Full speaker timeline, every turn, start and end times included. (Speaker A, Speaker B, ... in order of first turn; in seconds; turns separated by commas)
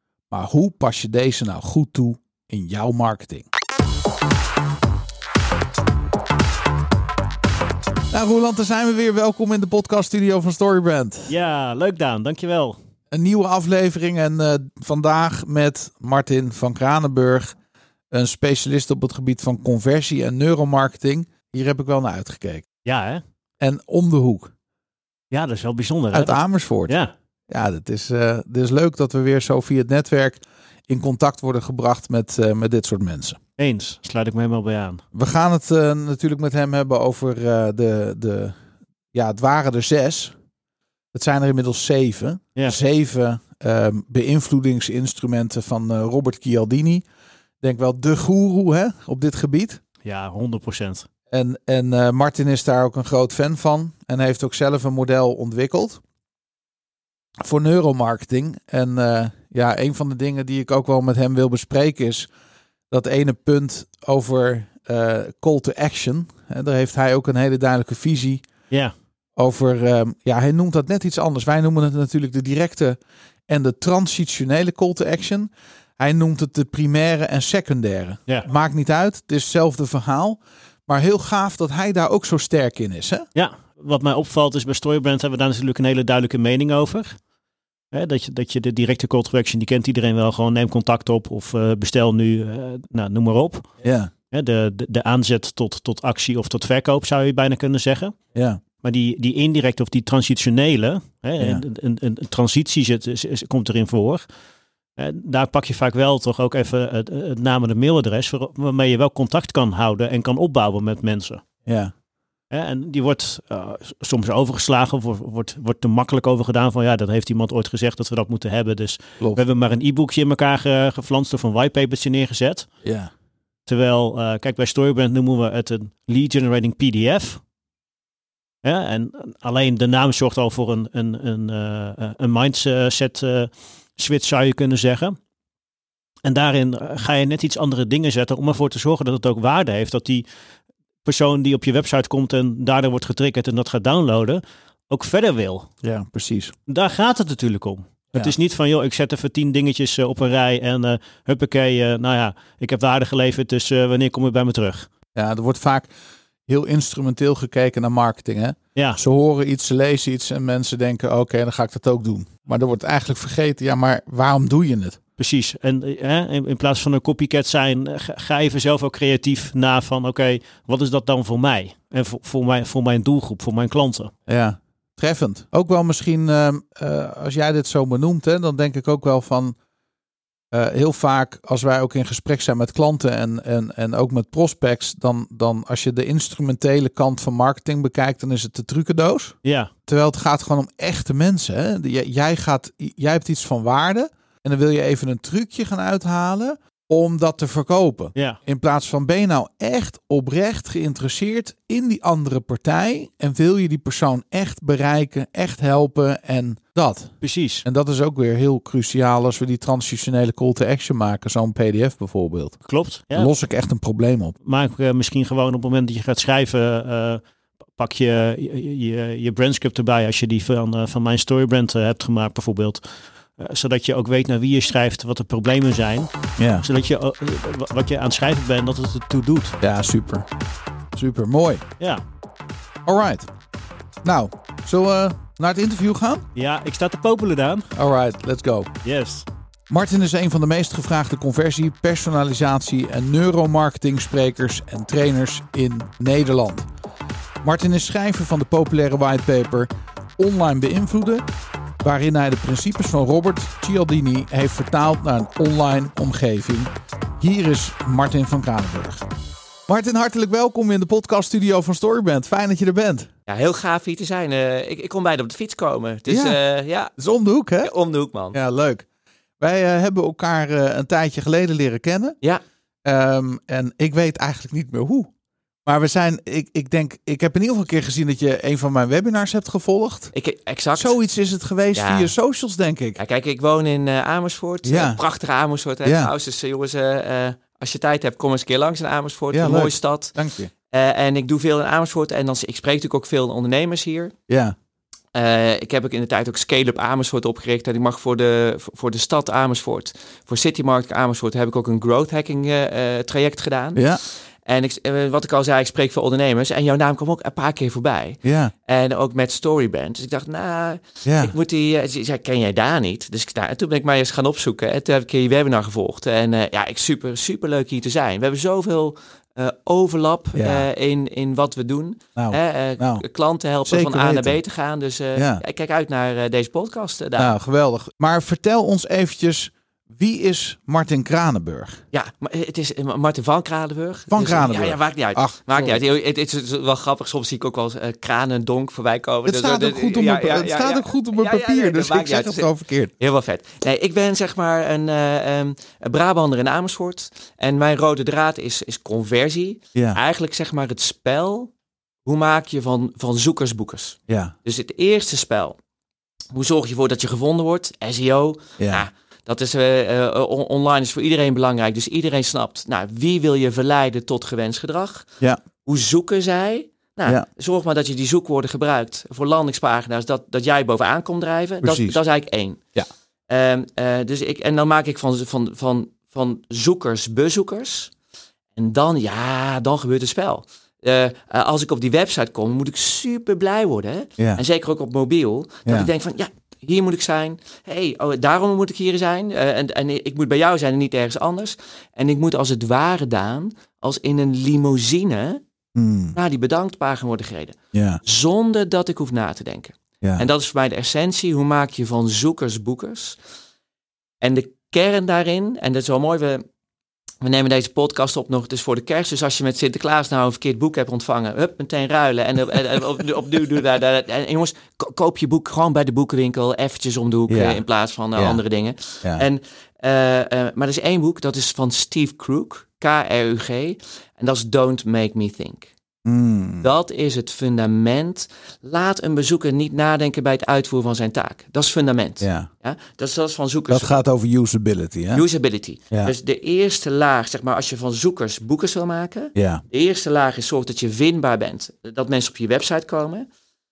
Speaker A: 0.3-3.5, Speaker A: 8.1-11.3, Speaker B: 11.3-12.8, Speaker A: 13.1-17.6, Speaker A: 18.1-22.7, Speaker B: 22.9-23.2, Speaker A: 23.6-24.5, Speaker B: 25.3-27.1, Speaker A: 26.1-26.9, Speaker A: 27.5-33.4, Speaker B: 33.6-35.0, Speaker A: 35.1-38.6, Speaker A: 39.1-40.4, Speaker A: 41.1-47.0, Speaker A: 47.6-49.8, Speaker B: 50.0-51.1, Speaker A: 51.3-56.0, Speaker A: 57.5-62.3, Speaker A: 62.9-68.4, Speaker A: 69.4-83.3, Speaker B: 83.3-87.2, Speaker B: 87.9-93.7, Speaker A: 93.8-94.1, Speaker B: 94.3-98.2, Speaker A: 98.3-98.6, Speaker B: 98.8-104.3, Speaker B: 105.0-111.4, Speaker A: 111.7-111.9, Speaker B: 112.5-122.7, Speaker A: 122.8-123.1, Speaker B: 123.7-127.4, Speaker B: 128.6-135.2, Speaker B: 136.2-140.2, Speaker B: 141.1-145.7, Speaker A: 145.8-146.6, Speaker B: 146.7-154.9, Speaker A: 155.2-155.9, Speaker A: 156.5-165.0, Speaker B: 165.2-174.1, Speaker A: 174.3-179.6, Speaker A: 180.5-189.4, Speaker B: 189.4-189.7, Speaker A: 189.9-212.6, Speaker B: 207.2-207.7, Speaker B: 212.7-213.3, Speaker A: 213.1-214.3, Speaker B: 214.4-217.2, Speaker B: 217.8-222.8, Speaker B: 223.4-229.6, Speaker A: 226.4-226.7, Speaker A: 229.6-230.3, Speaker A: 231.0-231.6, Speaker A: 232.9-233.3, Speaker A: 234.0-236.2, Speaker B: 236.3-237.7, Speaker A: 237.8-238.7, Speaker B: 238.8-239.3, Speaker A: 239.7-246.7, Speaker A: 247.4-251.2, Speaker A: 251.8-259.1, Speaker A: 259.7-263.1, Speaker C: 263.3-266.9, Speaker A: 266.1-266.4, Speaker A: 267.0-267.7, Speaker C: 267.6-268.4, Speaker A: 268.3-268.9, Speaker A: 269.4-272.2, Speaker A: 272.9-275.1, Speaker A: 275.6-280.1, Speaker C: 280.1-281.0, Speaker A: 280.8-283.0, Speaker C: 281.8-282.1, Speaker C: 283.0-290.2, Speaker A: 284.6-285.0, Speaker A: 285.8-286.1, Speaker A: 289.3-290.5, Speaker C: 290.7-294.1, Speaker A: 294.3-294.6, Speaker C: 295.1-303.9, Speaker A: 303.8-304.0, Speaker C: 304.5-327.3, Speaker A: 308.2-308.5, Speaker A: 311.1-311.3, Speaker A: 320.3-320.7, Speaker A: 322.2-323.0, Speaker A: 323.7-324.4, Speaker A: 325.1-325.4, Speaker A: 327.2-331.8, Speaker C: 331.9-351.5, Speaker A: 334.1-335.8, Speaker A: 339.2-342.9, Speaker A: 349.8-350.0, Speaker C: 352.1-355.6, Speaker A: 354.1-354.3, Speaker C: 356.3-365.1, Speaker A: 358.6-358.9, Speaker C: 365.6-372.6, Speaker A: 371.6-372.0, Speaker C: 373.3-377.9, Speaker C: 378.6-395.4, Speaker A: 395.8-396.2, Speaker C: 396.2-403.2, Speaker A: 397.7-398.0, Speaker C: 404.2-406.4, Speaker C: 407.2-425.7, Speaker A: 417.3-417.6, Speaker A: 418.1-418.4, Speaker A: 426.1-426.7, Speaker C: 426.6-434.0, Speaker A: 432.2-432.5, Speaker A: 433.7-435.2, Speaker C: 435.1-443.3, Speaker A: 439.4-439.6